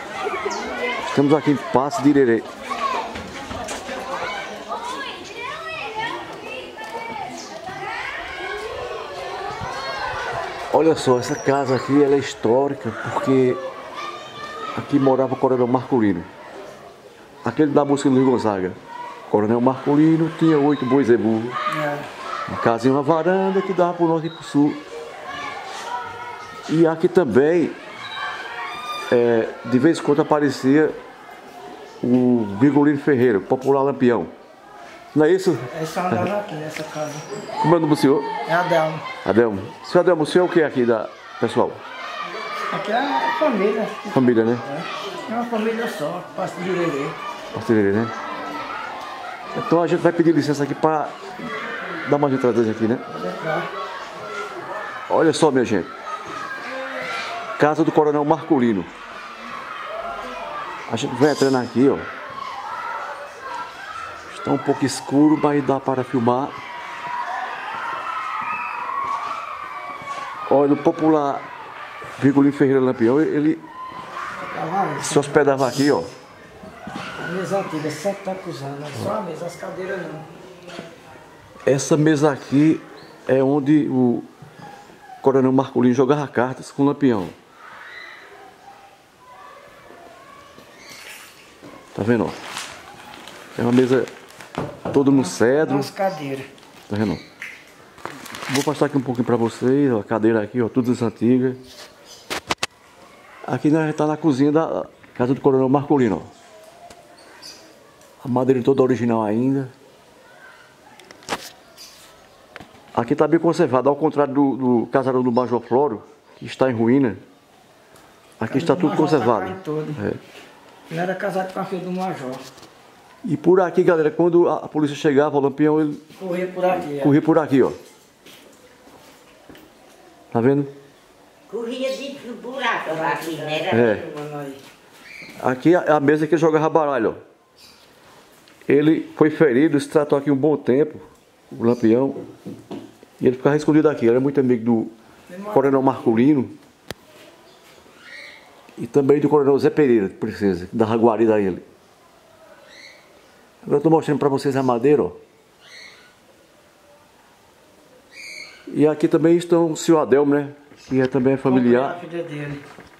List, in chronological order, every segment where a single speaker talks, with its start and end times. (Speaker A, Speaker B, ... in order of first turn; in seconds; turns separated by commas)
Speaker A: 1.1-2.5, Speaker A: 10.7-13.6, Speaker A: 14.8-16.3, Speaker A: 17.4-18.8, Speaker A: 19.3-21.6, Speaker B: 21.7-22.1, Speaker A: 22.5-24.8, Speaker A: 26.7-27.8, Speaker A: 29.1-31.0, Speaker A: 32.0-34.3, Speaker A: 35.1-36.3, Speaker B: 35.7-37.2, Speaker A: 37.6-38.3, Speaker B: 38.5-39.0, Speaker A: 39.2-41.8, Speaker B: 42.7-47.2, Speaker A: 44.1-44.6, Speaker A: 47.5-48.1, Speaker A: 49.5-51.1, Speaker A: 52.0-53.0, Speaker B: 53.1-53.7, Speaker A: 55.1-55.9, Speaker A: 57.6-58.9, Speaker A: 60.9-62.1, Speaker A: 64.3-66.5, Speaker A: 70.5-71.5, Speaker A: 72.2-73.6, Speaker B: 74.5-75.9, Speaker A: 75.0-76.1, Speaker B: 77.2-80.3, Speaker A: 81.7-84.3, Speaker A: 85.2-87.3, Speaker A: 92.0-92.4, Speaker A: 93.6-94.1, Speaker A: 94.9-95.9, Speaker B: 94.9-96.5, Speaker A: 96.9-97.2, Speaker A: 98.5-101.6, Speaker A: 103.5-106.3, Speaker A: 108.2-109.7, Speaker A: 112.9-117.2, Speaker A: 118.4-120.2, Speaker B: 118.5-120.0, Speaker B: 120.9-122.4, Speaker A: 123.2-126.0, Speaker B: 126.2-127.2, Speaker A: 126.8-127.8, Speaker A: 130.3-130.7, Speaker C: 131.5-133.9, Speaker B: 132.8-134.6, Speaker A: 133.7-134.1, Speaker A: 135.4-137.2, Speaker A: 138.7-142.2, Speaker A: 143.2-144.9, Speaker B: 145.3-146.3, Speaker A: 145.5-146.6, Speaker A: 148.8-151.6, Speaker A: 153.6-155.2, Speaker A: 158.7-162.0, Speaker B: 161.4-162.6